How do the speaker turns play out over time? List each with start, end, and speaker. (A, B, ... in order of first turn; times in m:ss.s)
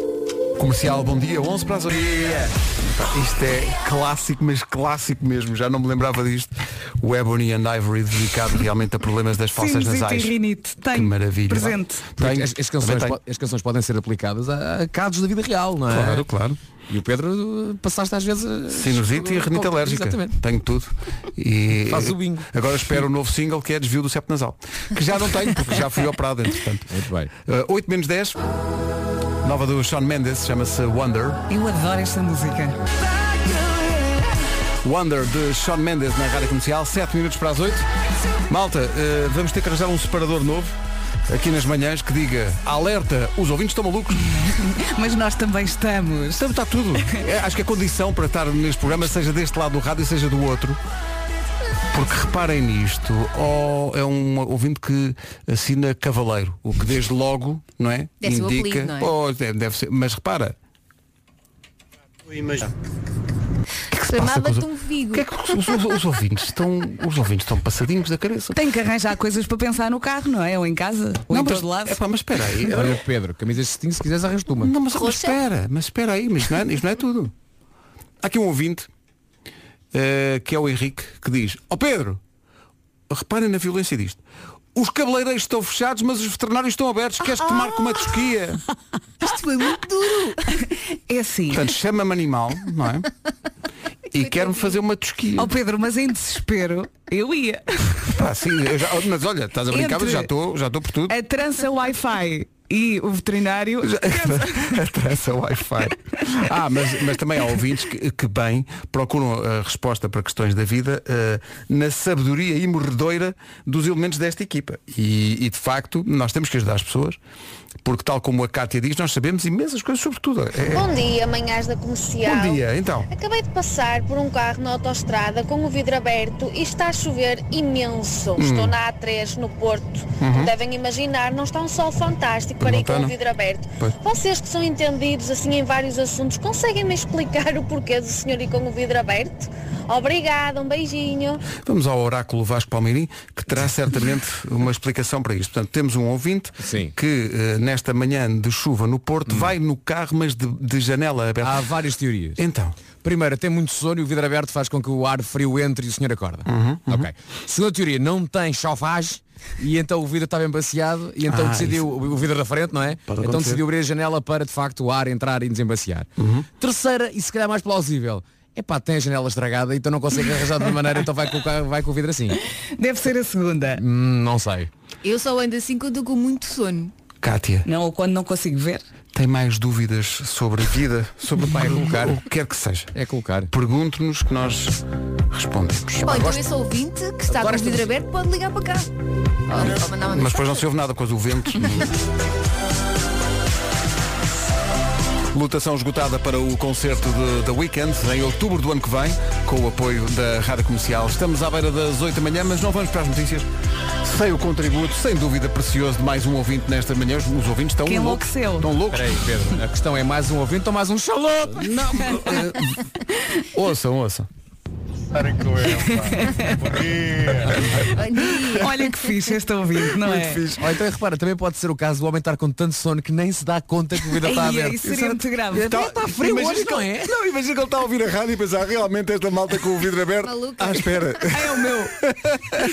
0:00.6-0:10.3 A
0:09.6-0:12.0 B
0:10.9-0:13.2 A
0:12.2-0:16.2 C
0:15.9-0:16.6 A
0:16.9-0:20.4 C
0:18.7-0:26.9 A
0:21.8-0:22.5 C
0:26.9-0:27.3 C
0:27.4-0:28.4 A
0:29.4-0:31.4 A
0:31.5-0:32.8 B
0:34.8-0:37.8 A
0:38.5-0:40.8 A
0:41.3-0:44.3 A
0:44.4-0:46.4 B
0:46.4-0:50.8 A
0:51.9-1:00.6 A
0:58.2-0:59.1 D
1:03.9-1:08.6 A
1:04.1-1:05.8 D
1:08.5-1:12.0 B
1:11.3-1:13.0 A
1:12.7-1:14.7 C
1:14.6-1:17.3 A
1:14.9-1:15.4 D
1:18.2-1:18.9 A
1:19.9-1:22.2 A
1:23.1-1:24.2 A
1:24.7-1:28.6 A
1:27.6-1:28.0 D
1:29.2-1:30.5 D
1:31.1-1:31.6 B
1:31.5-1:33.1 A
1:34.1-1:35.5 A
1:34.2-1:34.8 D
1:35.4-1:38.1 B
1:38.1-1:41.2 A
1:39.7-1:40.3 B
1:41.1-1:44.8 B
1:43.8-1:57.2 A
1:57.8-2:00.9 A
2:00.7-2:02.6 E
2:02.2-2:03.1 A
2:03.1-2:21.4 E
2:08.4-2:08.8 A
2:10.2-2:10.5 A
2:12.6-2:13.1 A
2:21.6-2:31.6 A
2:26.6-2:26.9 C
2:31.4-2:32.4 C
2:32.4-2:32.8 A
2:33.0-2:46.1 C
2:36.5-2:37.1 A
2:41.3-2:41.9 A
2:43.1-2:43.6 A
2:46.2-2:46.5 A
2:46.6-2:52.4 C
2:52.8-2:53.8 B
2:53.7-2:54.7 C
2:55.0-2:56.9 D
2:57.2-2:57.7 A
2:57.6-2:58.8 B
2:59.1-3:02.9 A
3:01.5-3:02.2 C
3:02.9-3:03.5 C
3:03.5-3:04.8 A
3:05.3-3:06.4 A
3:06.0-3:08.9 D
3:07.3-3:07.9 C
3:09.5-3:10.6 D
3:10.1-3:11.9 A
3:15.3-3:23.5 A
3:24.0-3:29.2 A
3:27.8-3:28.7 B
3:28.9-3:31.7 C
3:31.5-3:32.8 A
3:33.5-3:34.3 A
3:35.7-3:36.6 B
3:37.3-3:37.7 A
3:37.9-3:38.9 D
3:38.6-3:40.4 B
3:39.8-3:40.7 A
3:40.6-3:47.1 C
3:44.2-3:45.8 B
3:45.6-3:52.6 A
3:50.2-3:51.1 D
3:51.3-3:51.9 B